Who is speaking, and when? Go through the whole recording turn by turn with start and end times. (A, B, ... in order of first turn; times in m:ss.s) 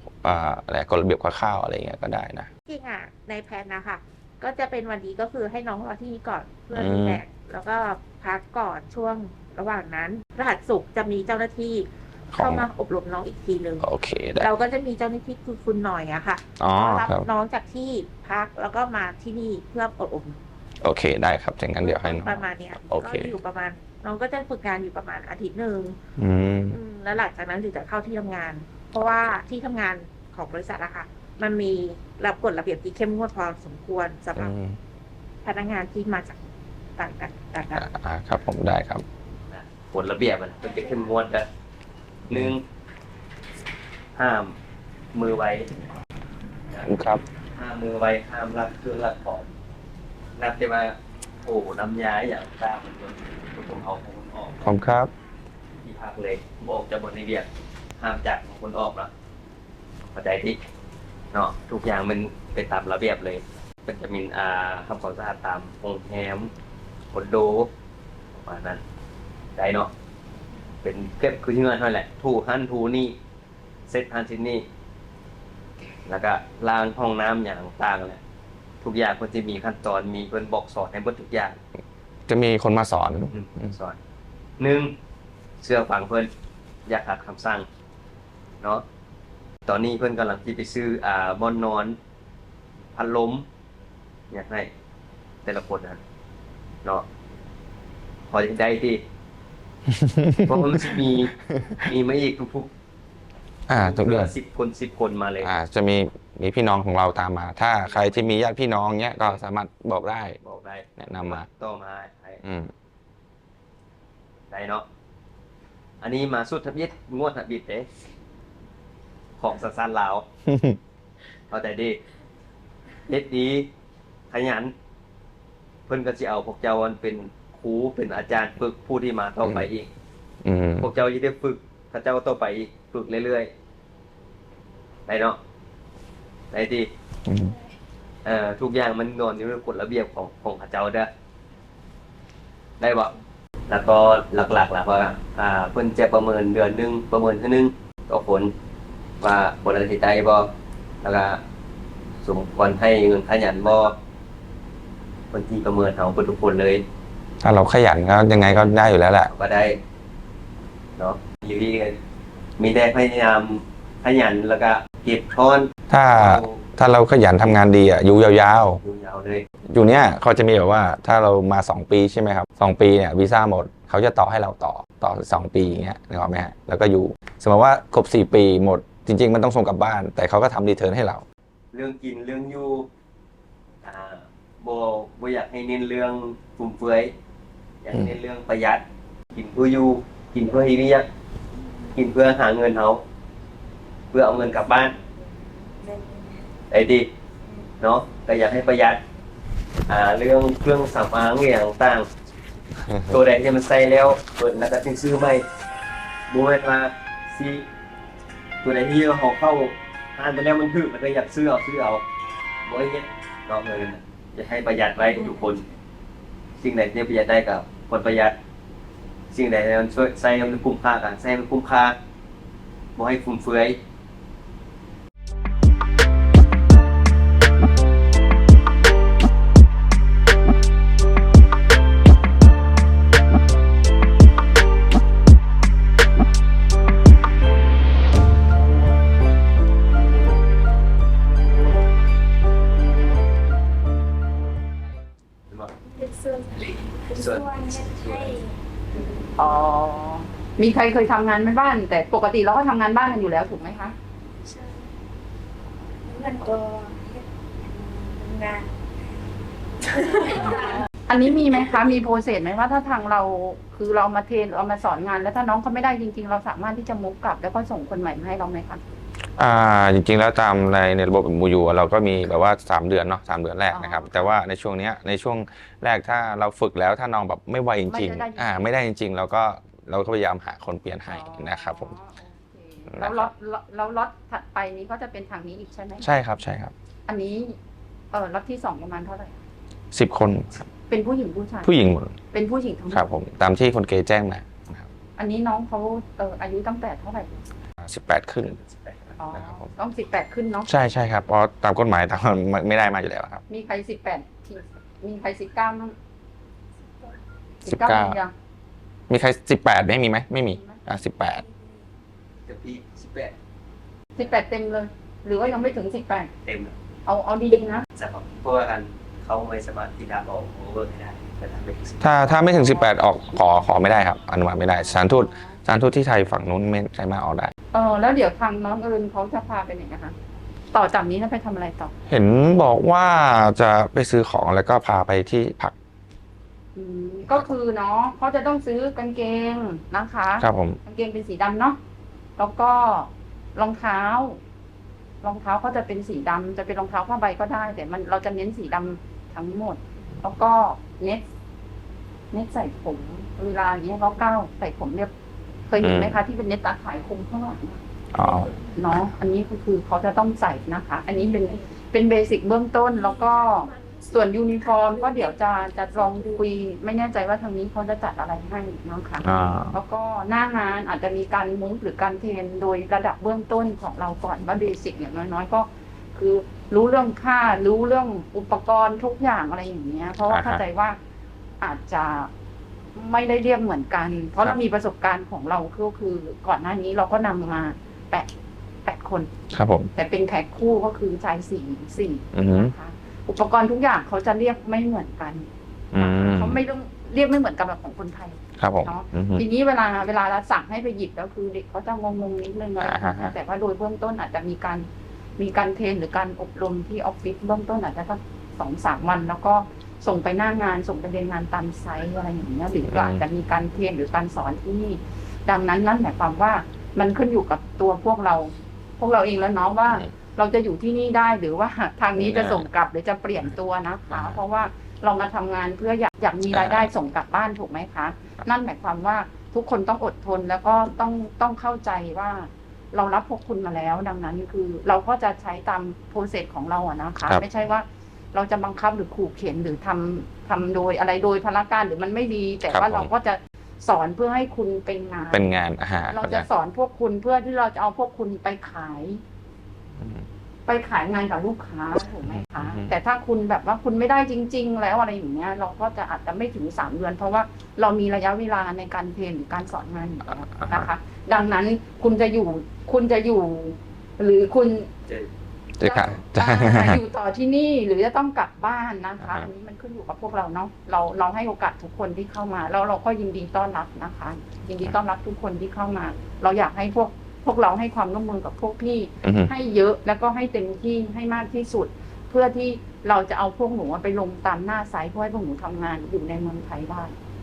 0:00.2-0:02.5 A
0:02.7-0:13.9 B
0:06.7-0:07.2 A
0:12.3-0:12.7 A
0:13.8-0:14.5 A
0:14.4-0:20.4 B
0:16.6-0:17.3 A
0:20.8-0:23.4 A
0:21.8-0:26.0 B
0:26.2-0:26.8 A
0:26.7-0:34.5 B
0:34.4-0:34.8 A
0:35.4-0:36.4 B
0:37.0-0:37.9 B
0:37.8-0:39.0 A
0:39.5-0:41.5 C
0:42.3-0:42.5 A
0:42.3-0:42.6 C
0:44.2-0:44.5 C
0:45.1-0:45.7 C
0:46.8-0:47.2 A
0:47.6-0:49.5 C
0:50.4-0:54.7 C
0:54.6-0:55.1 A
0:55.8-0:57.5 C
0:58.0-0:59.1 C
1:00.1-1:00.6 C
1:01.3-1:06.5 C
1:07.1-1:07.7 C
1:08.3-1:08.8 C
1:09.6-1:09.9 C
1:10.8-1:13.2 C
1:13.9-1:14.6 C
1:16.1-1:18.2 C
1:18.8-1:21.6 C
1:22.3-1:23.7 A
1:23.3-1:24.0 C
1:24.6-1:24.9 C
1:25.6-1:26.3 C
1:26.9-1:27.7 C
1:29.7-1:32.0 C
1:33.0-1:33.4 C
1:34.3-1:34.7 C
1:35.4-1:36.0 C
1:38.3-1:39.0 C
1:39.9-1:40.9 A
1:40.5-1:42.7 C
1:41.6-1:41.9 A
1:43.7-1:44.3 A
1:43.7-1:45.5 C
1:45.4-1:50.4 A
1:48.0-1:48.2 C
1:50.4-1:52.4 C
1:51.0-1:51.5 A
1:52.4-1:52.7 A
1:54.5-1:54.8 C
1:56.0-1:57.9 C
1:59.4-2:00.2 C
2:00.5-2:00.8 A
2:01.5-2:02.0 C
2:03.1-2:03.7 C
2:04.3-2:04.7 C
2:05.9-2:09.9 C
2:10.4-2:10.9 A
2:10.8-2:13.5 C
2:15.1-2:15.4 C
2:16.5-2:16.9 C
2:17.3-2:17.6 A
2:18.2-2:21.1 C
2:22.8-2:23.1 C
2:23.7-2:28.5 C
2:29.2-2:30.5 C
2:31.0-2:31.4 C
2:32.2-2:34.0 C
2:35.3-2:36.8 C
2:37.4-2:39.3 A
2:39.3-2:39.8 C
2:41.0-2:42.0 C
2:42.6-2:46.6 C
2:45.9-2:48.8 A
2:48.8-2:49.4 C
2:49.7-3:01.2 A
3:01.7-3:02.9 C
3:03.8-3:07.1 C
3:07.8-3:11.1 C
3:11.9-3:13.0 C
3:14.1-3:15.0 C
3:15.9-3:16.4 D
3:16.7-3:17.1 C
3:17.8-3:19.0 C
3:19.9-3:22.1 C
3:22.8-3:23.2 A
3:23.1-3:25.4 C
3:26.3-3:27.7 C
3:28.6-3:32.0 C
3:32.7-3:35.6 C
3:36.6-3:38.4 C
3:39.3-3:42.0 C
3:43.0-3:43.8 C
4:06.0-4:06.5 D
4:06.5-4:08.4 C
4:07.1-4:08.4 D
4:09.4-4:14.0 E
4:16.1-4:18.7 D
4:20.0-4:20.8 D
4:21.1-4:28.8 E
4:29.4-4:41.9 A
4:33.7-4:34.3 E
4:37.9-4:38.6 E
4:41.1-4:46.1 E
4:42.9-4:43.3 A
4:46.0-4:46.7 A
4:47.1-4:47.6 E
4:48.1-4:49.4 E
4:49.9-4:50.7 A
4:50.9-4:51.7 E
4:51.6-4:52.2 A
4:52.3-4:53.1 E
4:52.9-4:54.9 A
4:55.2-4:57.5 E
4:57.8-4:58.6 A
4:59.2-5:00.7 E
4:59.3-4:59.7 A
5:00.7-5:03.4 A
5:03.5-5:05.9 E
5:07.6-5:08.3 E
5:07.7-5:08.2 A
5:09.1-5:11.4 A
5:10.5-5:10.8 E
5:12.5-5:13.3 C
5:14.2-5:16.3 E
5:16.4-5:16.7 C
5:17.1-5:17.9 E
5:18.0-5:22.1 C
5:22.0-5:27.5 A
5:22.4-5:22.9 E
5:24.7-5:25.6 E
5:27.7-5:30.2 E
5:30.7-5:31.9 E
5:32.1-5:35.7 A
5:36.8-5:41.8 E
5:40.4-5:40.8 A
5:42.4-5:44.4 E
5:45.2-5:51.3 E
5:52.3-5:55.1 E
5:55.7-5:57.8 E
5:55.8-5:56.2 A
5:58.1-5:58.6 A
5:58.6-6:21.0 E
6:09.2-6:09.8 A
6:20.2-6:20.6 A
6:21.6-6:22.3 E
6:23.0-6:28.3 E
6:28.8-6:29.3 E
6:29.5-6:29.9 A
6:30.0-6:35.5 E
6:32.3-6:32.7 A
6:35.9-6:36.6 A
6:36.0-6:44.9 E
6:38.6-6:39.4 A
6:42.8-6:43.3 A
6:45.4-7:25.5 E
6:52.9-6:53.2 A
7:02.2-7:02.7 A
7:04.1-7:04.4 A
7:06.5-7:06.9 A
7:22.7-7:23.1 A
7:25.3-7:26.5 A
7:26.1-7:29.2 E
7:30.0-7:30.2 A
7:30.7-7:44.9 E
7:32.2-7:32.9 A
7:40.2-7:40.9 A
7:45.8-7:47.0 A
7:45.8-8:07.1 E
7:49.2-7:49.5 A
7:59.2-7:59.5 A